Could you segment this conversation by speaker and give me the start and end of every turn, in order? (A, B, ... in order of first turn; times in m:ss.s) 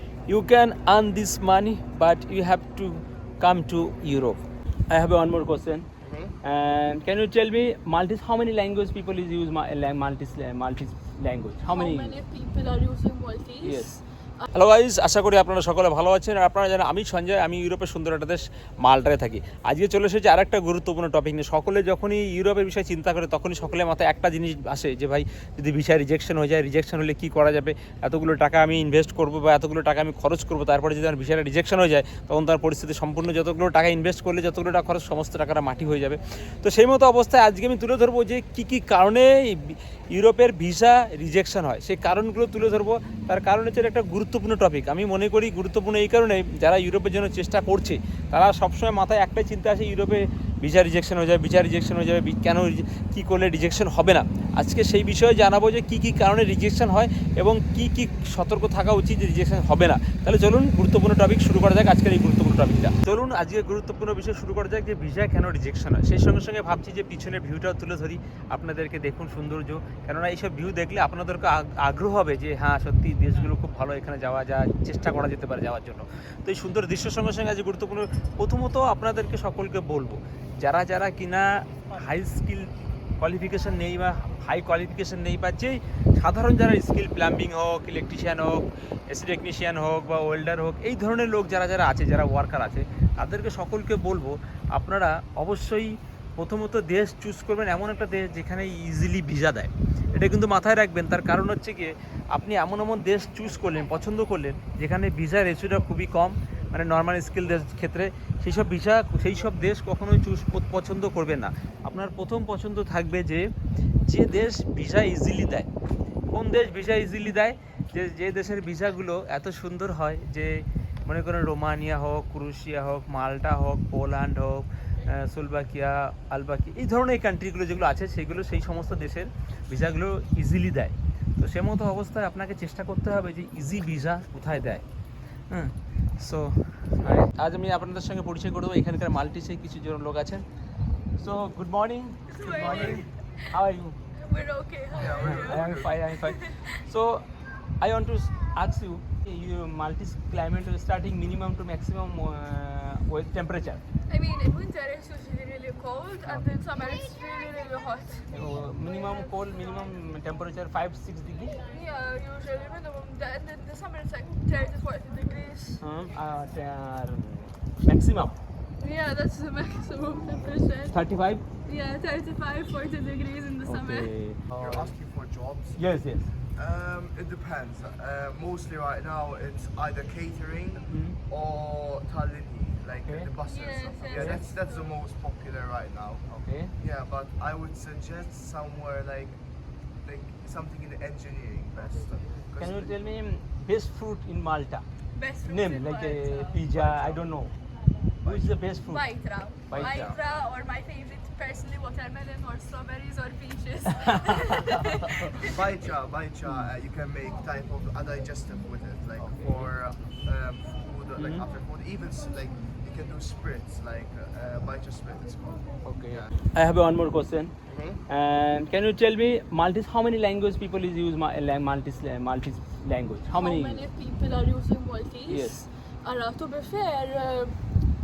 0:00.3-0:05.9 A
0:06.0-0:06.3 B
0:06.4-0:12.1 A
0:11.6-0:14.4 C
0:13.6-0:13.9 A
0:14.5-1:53.5 A
1:54.0-1:55.7 A
1:56.3-2:14.8 A
2:15.5-2:20.4 A
2:21.2-2:24.0 A
2:22.3-2:23.5 C
2:22.4-2:23.0 B
2:24.2-2:26.7 C
2:24.9-2:26.0 B
2:25.0-2:27.2 A
2:27.8-2:33.8 A
2:34.1-2:39.7 C
2:38.3-2:41.6 A
2:41.6-2:45.8 C
2:45.8-2:48.4 A
2:48.8-2:51.0 C
2:50.9-2:51.4 A
2:51.6-2:54.1 C
2:53.6-2:54.9 A
2:54.6-2:55.8 B
2:55.8-2:56.2 A
2:56.5-3:09.4 B
3:00.9-3:01.2 A
3:03.0-3:03.3 A
3:03.4-3:04.8 C
3:04.1-3:04.4 A
3:06.4-3:06.7 A
3:10.0-3:12.9 B
3:12.6-3:14.8 A
3:15.1-3:16.6 C
3:15.4-3:17.5 A
3:16.7-3:17.3 B
3:18.2-3:18.7 B
3:18.2-3:19.0 A
3:18.9-3:25.6 C
3:19.7-3:20.2 A
3:24.0-3:25.3 A
3:25.4-3:36.3 B
3:29.2-3:29.7 A
3:31.2-3:31.4 A
3:35.8-3:37.5 A
3:37.7-3:38.0 B
3:38.1-3:43.8 A
3:43.3-3:47.6 C
3:45.3-3:45.6 A